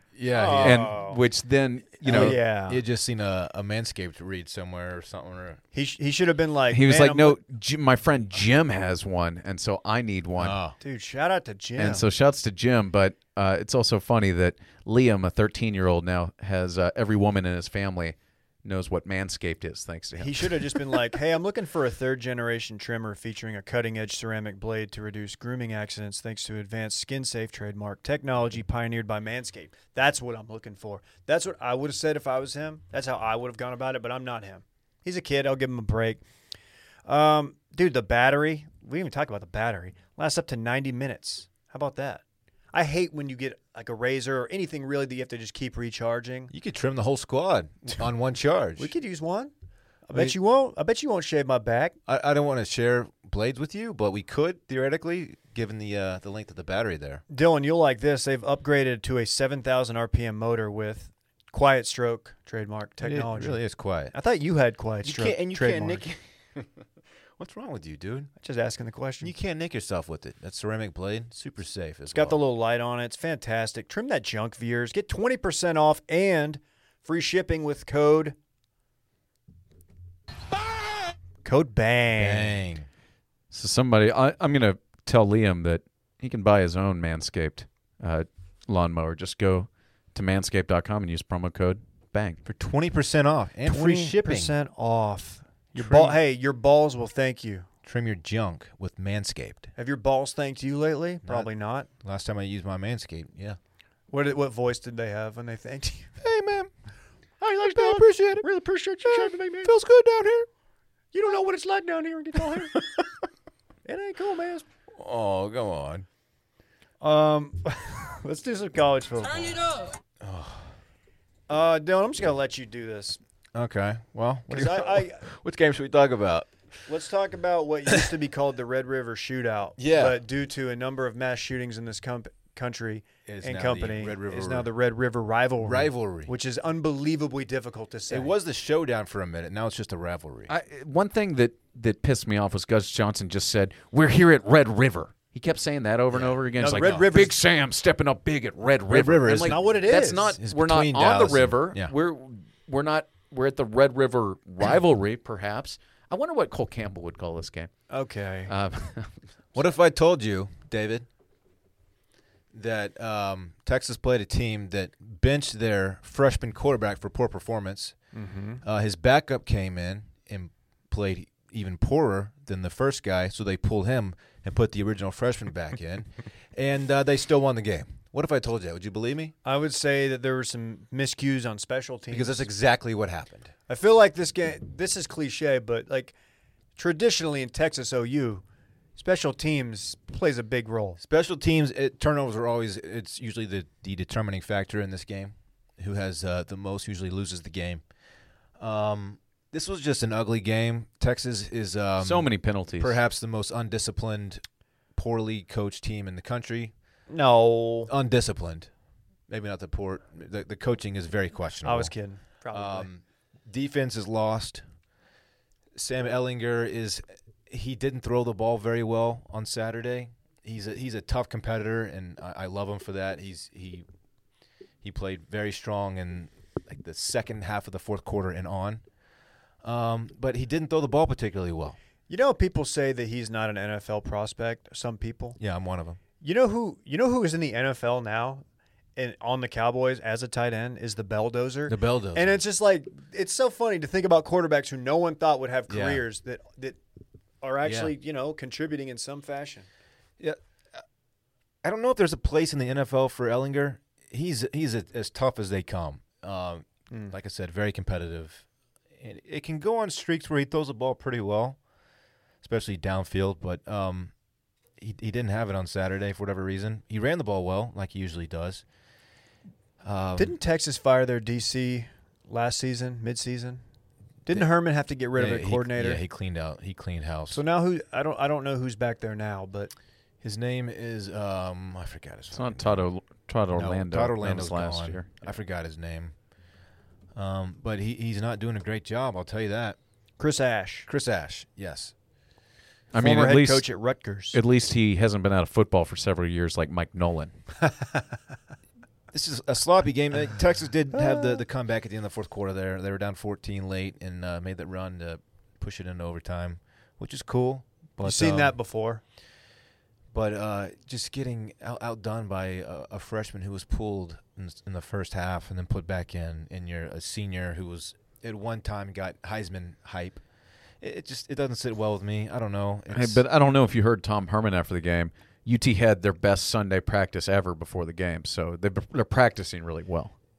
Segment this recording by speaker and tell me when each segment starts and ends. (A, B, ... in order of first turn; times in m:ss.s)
0:00.2-0:01.0 A
0:00.3-0:01.2 B
0:00.6-0:02.4 C
0:02.0-0:02.8 B
0:02.0-0:05.6 A
0:05.7-0:07.4 B
0:06.7-0:10.6 C
0:10.4-0:10.8 A
0:10.8-0:12.0 B
0:11.8-0:20.8 C
0:20.2-0:36.2 B
0:37.1-0:42.2 B
0:42.7-0:46.5 B
0:46.5-0:48.9 A
0:48.8-0:49.5 B
0:50.1-0:52.0 B
0:52.1-0:57.2 A
0:57.3-1:03.6 B
1:03.0-1:04.1 A
1:04.1-1:06.0 B
1:05.0-1:06.8 A
1:07.4-1:08.3 A
1:08.4-1:09.3 B
1:09.2-1:12.4 A
1:12.1-1:18.4 B
1:21.4-1:22.6 B
1:22.2-1:22.9 A
1:23.5-1:32.4 C
1:32.5-1:34.6 A
1:33.6-1:37.7 B
1:35.8-1:36.2 A
1:37.8-1:39.7 A
1:39.8-1:41.9 B
1:41.2-1:41.5 A
1:42.0-1:43.6 A
1:44.1-1:46.1 B
1:46.2-1:46.7 A
1:47.4-1:49.7 B
1:47.6-1:48.5 A
1:49.0-1:50.5 A
1:51.1-1:52.9 B
1:53.8-1:54.6 B
1:55.0-1:56.1 A
1:57.0-1:59.9 B
2:00.2-2:00.7 A
2:01.5-2:03.2 B
2:03.5-2:06.5 A
2:04.5-2:05.2 B
2:06.9-2:18.4 B
2:09.8-2:10.2 A
2:13.3-2:14.7 A
2:15.6-2:16.3 A
2:18.1-2:20.5 A
2:20.5-2:37.7 C
2:26.1-2:27.1 A
2:26.6-2:27.4 B
2:28.9-2:31.9 A
2:29.4-2:30.4 B
2:37.9-2:38.5 B
2:38.5-2:39.2 C
2:39.6-2:41.1 A
2:42.5-2:48.0 A
2:48.1-2:48.6 B
2:48.6-2:59.3 A
2:59.4-3:02.5 B
3:02.1-3:03.5 A
3:03.7-3:06.2 B
3:06.8-3:08.4 B
3:09.0-3:11.0 B
3:11.0-3:17.8 A
3:18.6-3:24.4 A
3:22.0-3:23.0 C
3:25.0-3:26.7 A
3:27.1-3:27.9 B
3:27.9-3:28.7 A
3:29.3-3:31.9 A
3:31.6-3:32.9 B
3:32.5-3:34.6 A
3:35.8-3:43.8 A
3:44.8-3:48.8 A
3:49.6-3:51.8 A
3:52.1-3:55.4 B
3:55.4-3:56.0 A
3:56.2-3:58.4 B
3:59.0-4:06.8 B
4:01.7-4:02.4 A
4:05.7-4:06.0 A
4:07.4-4:09.7 B
4:07.6-4:07.9 A
4:11.6-4:21.6 A
4:22.4-4:24.1 A
4:24.8-4:28.6 A
4:29.8-4:30.4 A
4:30.2-4:33.6 B
4:34.2-4:36.0 B
4:35.2-4:37.4 A
4:37.3-4:39.7 B
4:40.2-4:42.9 A
4:42.3-4:45.2 C
4:43.5-4:46.2 A
4:47.2-4:49.8 A
4:50.2-4:50.9 B
4:50.9-4:51.9 A
4:52.9-4:53.7 C
4:52.9-4:54.4 B
4:54.3-4:57.4 C
4:59.1-5:08.6 A
5:00.9-5:01.4 B
5:08.0-5:09.0 B
5:10.1-5:20.2 A
5:20.8-5:23.2 A
5:22.9-5:30.1 C